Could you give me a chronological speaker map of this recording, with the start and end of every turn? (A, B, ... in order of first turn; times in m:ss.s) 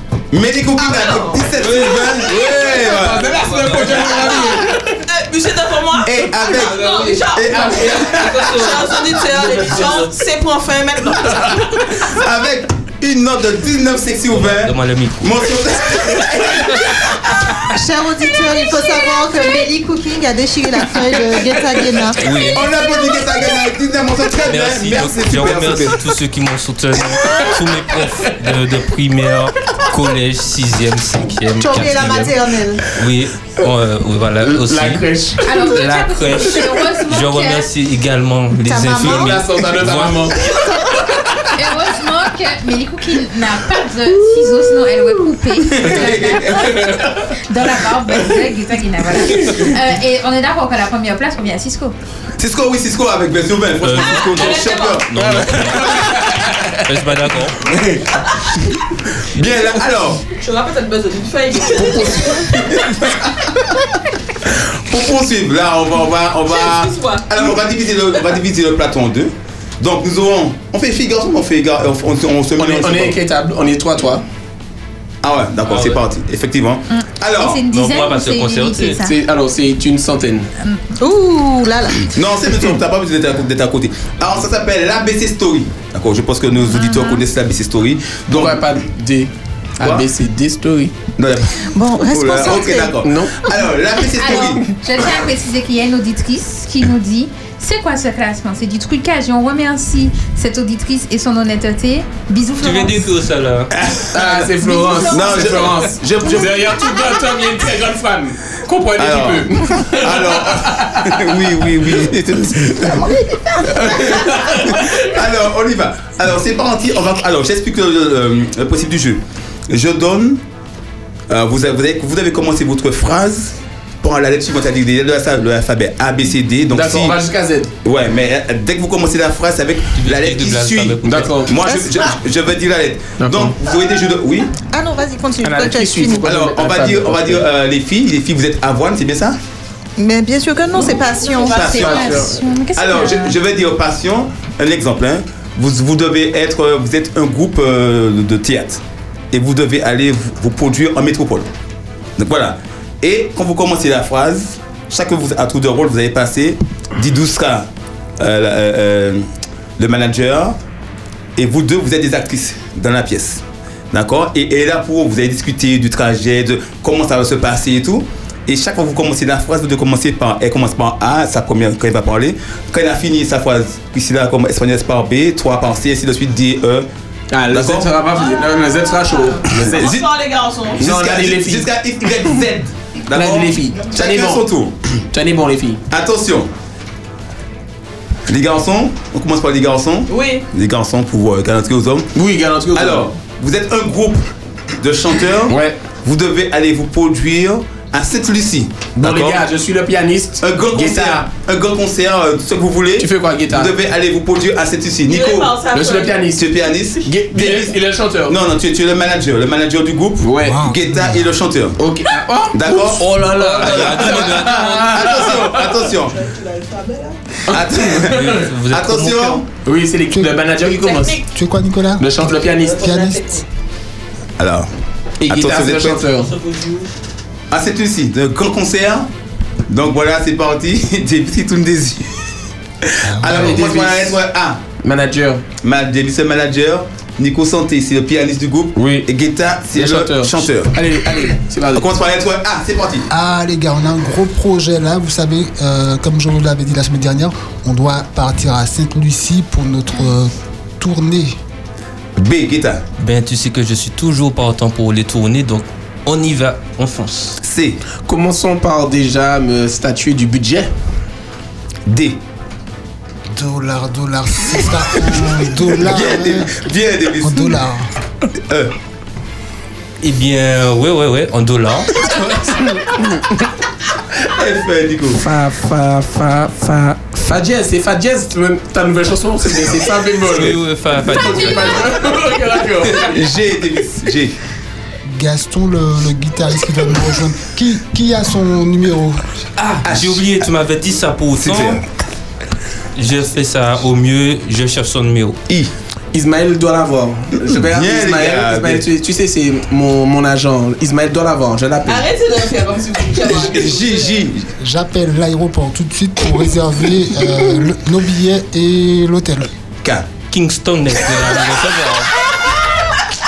0:00.3-0:03.3 A
0:00.8-0:01.6 B
0:01.6-0:02.5 C
0:02.5-0:05.0 D
0:03.2-0:04.5 C
0:04.4-0:11.8 B
0:06.0-0:08.4 A
0:06.6-0:07.2 C
0:08.1-0:10.2 C
0:12.0-0:17.2 A
0:14.3-0:15.3 C
0:17.7-0:22.2 E
0:22.2-0:22.6 C
0:22.4-0:26.0 A
0:24.4-0:32.3 C
0:31.6-0:32.8 E
0:32.9-0:40.5 C
0:34.4-0:35.7 D
0:35.4-0:37.7 F
0:38.6-0:39.4 E
0:39.0-0:40.5 D
0:41.5-0:51.9 F
0:45.7-0:46.9 A
0:46.5-0:47.3 D
0:52.4-0:55.9 A
0:53.8-0:57.6 C
0:54.1-0:55.0 B
0:55.2-0:56.8 D
0:57.6-0:58.2 D
0:59.2-1:00.2 A
1:00.3-1:02.6 B
1:01.8-1:03.3 A
1:04.4-1:13.2 A
1:06.5-1:07.6 B
1:12.6-1:14.2 D
1:15.2-1:17.6 A
1:15.7-1:16.0 C
1:16.9-1:19.1 F
1:17.7-1:19.1 C
1:19.0-1:20.5 D
1:21.0-1:22.1 E
1:22.1-1:28.7 A
1:26.7-1:27.2 F
1:28.3-1:30.9 D
1:29.8-1:30.1 A
1:31.2-1:34.6 A
1:31.7-1:33.0 E
1:33.0-1:33.4 D
1:34.1-1:43.1 F
1:42.6-1:43.7 C
1:43.7-1:46.8 A
1:44.1-1:51.2 D
1:44.7-1:45.4 F
1:49.0-2:00.4 A
1:53.6-1:55.1 D
2:01.3-2:07.2 A
2:06.7-2:07.7 D
2:07.8-2:14.5 A
2:10.0-2:11.6 C
2:11.0-2:11.5 D
2:11.6-2:12.1 E
2:13.2-2:13.6 D
2:14.7-2:16.3 E
2:15.4-2:17.5 D
2:16.2-2:19.4 A
2:20.0-2:21.6 E
2:20.8-2:21.8 B
2:21.2-2:23.4 F
2:21.5-2:22.2 A
2:21.6-2:22.4 D
2:22.8-2:28.8 A
2:29.3-2:31.5 A
2:32.2-2:39.2 A
2:39.8-2:40.6 A
2:41.4-2:56.9 A
2:57.3-3:00.0 D
2:57.5-2:57.9 A
2:58.1-3:00.8 B
2:59.5-3:00.0 A
3:00.8-3:05.0 A
3:00.8-3:01.7 D
3:03.1-3:04.4 D
3:05.1-3:05.8 D
3:05.9-3:06.5 A
3:08.2-3:12.2 A
3:10.1-3:10.4 B
3:12.1-3:13.1 D
3:12.7-3:19.4 A
3:15.5-3:15.8 D
3:19.0-3:21.2 D
3:20.4-3:25.5 A
3:23.0-3:23.7 D
3:25.1-3:26.2 B
3:25.7-3:26.4 D
3:26.4-3:27.7 A
3:27.0-3:28.4 D
3:28.3-3:31.8 A
3:30.2-3:30.7 D
3:30.4-3:31.2 G
3:31.8-3:35.8 D
3:32.5-3:36.2 A
3:32.9-3:35.1 C
3:35.9-3:37.2 B
3:37.5-3:38.5 D
3:37.5-3:39.4 A
3:38.1-3:39.4 C
3:39.6-3:41.2 D
3:40.1-3:40.4 G
3:40.6-3:41.2 B
3:41.2-3:43.4 G
3:42.0-3:42.8 D
3:42.4-3:43.4 B
3:44.4-3:44.7 A
3:45.2-3:46.3 D
3:45.2-3:46.0 A
3:46.3-3:46.8 C
3:47.5-3:49.1 A
3:49.7-3:54.6 A
3:53.0-3:53.6 G
3:53.2-3:54.2 D
3:54.8-3:55.4 D
3:55.6-4:00.7 A
3:58.8-3:59.1 D
3:59.7-4:01.9 D
4:01.7-4:03.1 A
4:03.1-4:11.3 G
4:12.2-4:12.8 A
4:13.0-4:17.4 C
4:17.4-4:17.8 A
4:18.1-4:20.7 D
4:21.9-4:22.2 A
4:23.3-4:26.5 G
4:25.8-4:27.6 A
4:27.2-4:27.9 G
4:28.4-4:28.7 A
4:30.0-4:32.3 C
4:32.7-4:33.2 D
4:34.3-4:35.2 A
4:35.2-4:43.2 D
4:40.2-4:41.9 C
4:42.8-4:44.4 A
4:45.1-4:49.2 G
4:49.6-4:51.8 C
4:49.8-4:50.2 A
4:51.4-4:51.8 A
4:52.9-4:55.4 C
4:56.1-5:02.1 D
4:57.5-4:58.8 A
5:01.8-5:04.2 B
5:03.3-5:04.5 A
5:04.6-5:09.5 G
5:09.8-5:10.1 A
5:10.3-5:12.1 C